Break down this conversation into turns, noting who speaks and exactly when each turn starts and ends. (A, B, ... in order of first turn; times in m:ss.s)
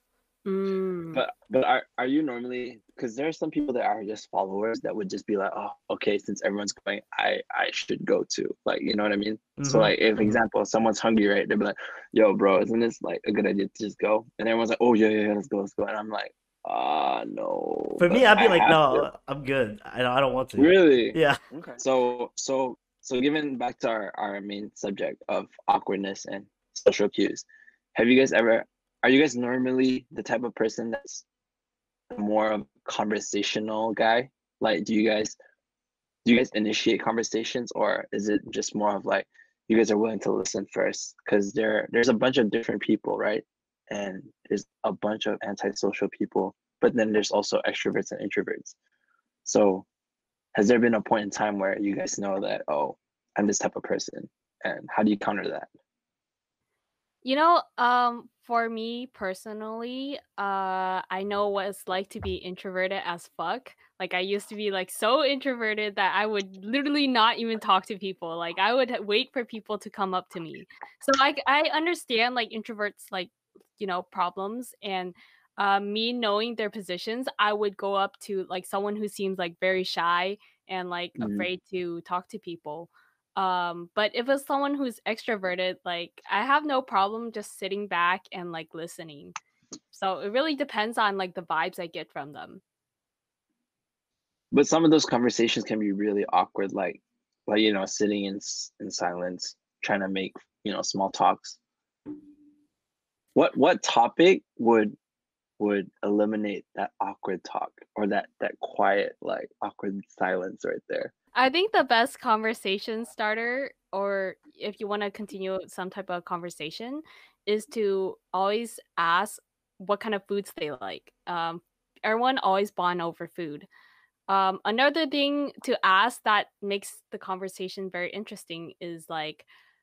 0:00.4-0:01.2 A
0:01.1-0:19.1 B
0:09.6-0:10.4 C
0:18.0-0:21.4 C
0:20.6-0:31.2 B
0:32.1-0:35.4 B
0:36.2-0:48.7 B
0:49.4-0:49.8 B
0:50.5-0:55.7 B
0:57.2-1:29.4 A
1:21.2-1:21.5 B
1:29.9-1:32.6 A
1:34.5-1:41.6 B
1:43.3-1:45.0 B
1:45.6-1:51.1 B
1:51.3-2:03.7 A
2:04.3-2:09.4 A